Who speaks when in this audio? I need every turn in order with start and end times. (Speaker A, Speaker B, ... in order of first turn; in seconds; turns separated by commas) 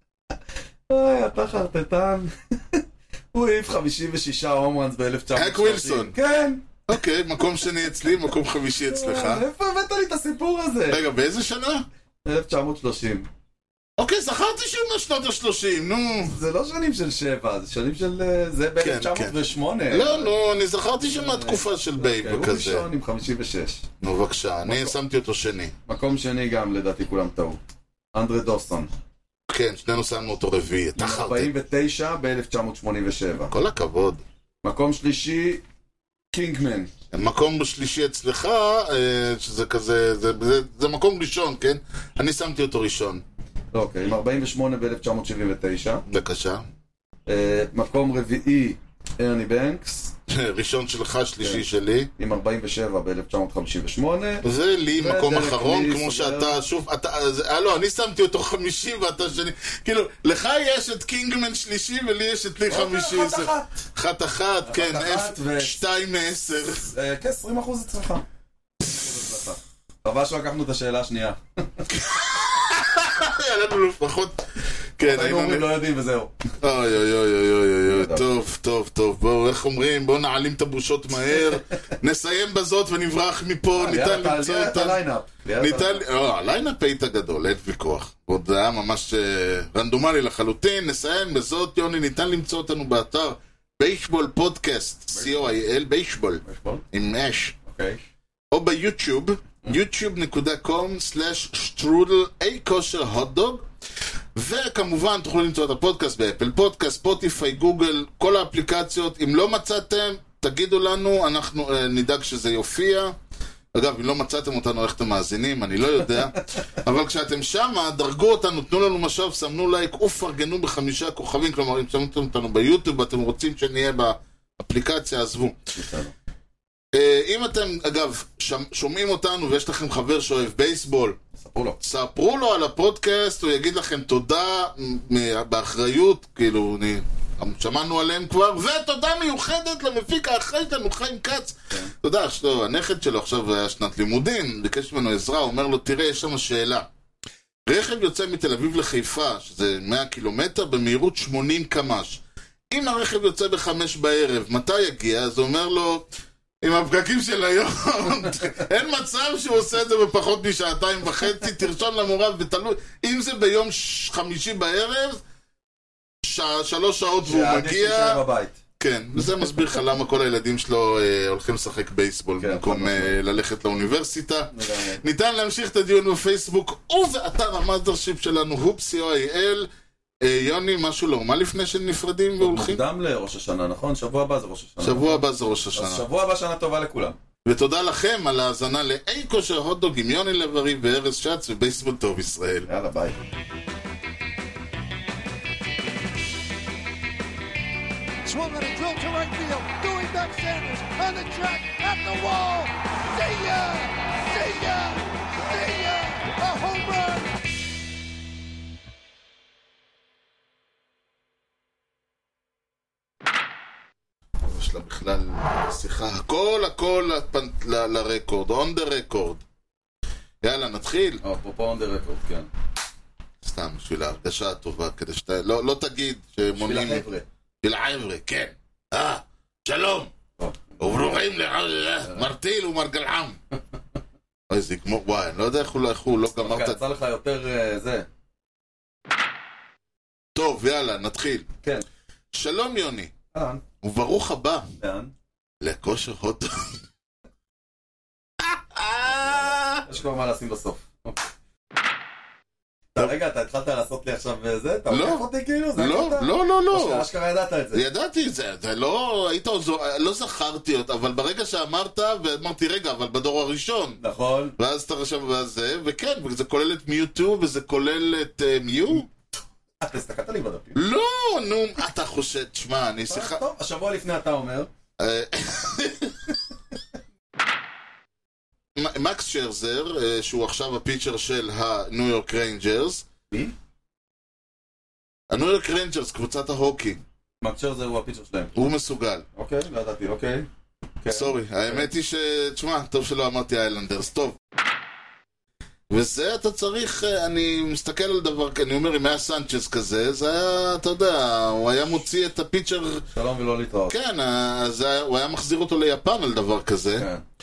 Speaker A: 0.9-6.6, Speaker B: 5.3-6.1, Speaker B: 6.9-9.4, Speaker A: 8.9-11.0, Speaker B: 10.9-11.8, Speaker A: 12.2-13.3, Speaker B: 14.0-16.4, Speaker A: 16.2-20.3, Speaker B: 18.8-19.3, Speaker B: 19.9-22.9, Speaker A: 20.9-23.9, Speaker B: 24.0-25.7, Speaker A: 24.6-24.9, Speaker A: 25.9-27.6, Speaker A: 28.1-28.9, Speaker B: 29.5-31.5, Speaker A: 30.9-33.5, Speaker B: 33.5-34.2, Speaker A: 34.6-35.6, Speaker A: 36.3-36.9, Speaker B: 37.1-43.2, Speaker A: 43.7-46.0, Speaker B: 46.1-46.6, Speaker A: 47.3-50.1, Speaker B: 50.3-52.1, Speaker A: 52.2-54.4, Speaker B: 54.4-66.9, Speaker A: 55.0-56.6, Speaker A: 62.7-63.8, Speaker A: 64.6-65.8, Speaker A: 66.8-68.2, Speaker A: 68.8-71.8, Speaker B: 71.9-74.4, Speaker B: 75.0-75.7, Speaker A: 75.0-76.3, Speaker B: 76.6-85.0, Speaker A: 77.9-78.2, Speaker A: 83.8-86.0, Speaker B: 85.6-97.5, Speaker A: 95.1-95.5, Speaker A: 96.4-96.8, Speaker A: 97.7-98.0, Speaker B: 98.5-103.6, Speaker B: 104.3-113.1, Speaker B: 113.7-125.6, Speaker A: 125.7-126.1, Speaker B: 126.9-131.2, Speaker A: 131.3-131.8, Speaker B: 131.8-146.9, Speaker B: 147.7-156.1, Speaker B: 156.6-165.2, Speaker B: 166.2-168.2, Speaker A: 167.2-168.6, Speaker B: 168.8-179.7, Speaker A: 172.4-173.2, Speaker A: 174.5-175.0, Speaker B: 180.2-182.8, Speaker A: 182.4-187.2, Speaker B: 184.8-186.1, Speaker B: 187.4-192.7, Speaker A: 192.7-193.2, Speaker C: 198.2-207.3, Speaker B: 214.4-219.4, Speaker B: 220.4-221.2, Speaker A: 221.2-222.5, Speaker B: 223.4-227.0, Speaker A: 226.5-227.2, Speaker B: 227.6-230.1, Speaker A: 230.4-231.1, Speaker B: 230.8-233.4, Speaker B: 234.5-236.8, Speaker A: 236.3-238.1, Speaker B: 240.3-241.5, Speaker B: 242.3-243.1, Speaker A: 243.3-243.6, Speaker B: 243.8-244.7, Speaker A: 244.8-245.1, Speaker B: 245.6-246.8, Speaker B: 248.4-249.8, Speaker A: 249.1-251.3, Speaker A: 252.9-257.8, Speaker B: 254.9-255.2, Speaker B: 255.8-257.1, Speaker B: 257.7-264.0, Speaker A: 264.0-264.5, Speaker B: 264.6-269.1, Speaker A: 269.8-270.8, Speaker B: 270.7-273.4, Speaker A: 273.1-274.7, Speaker B: 275.0-276.1, Speaker B: 278.8-283.1, Speaker B: 285.3-287.0, Speaker A: 287.4-288.6, Speaker B: 288.5-289.2, Speaker A: 289.3-290.5, Speaker A: 291.0-291.9, Speaker B: 291.1-294.4, Speaker B: 295.9-303.0, Speaker A: 303.1-303.9, Speaker B: 303.9-307.1, Speaker A: 307.0-307.2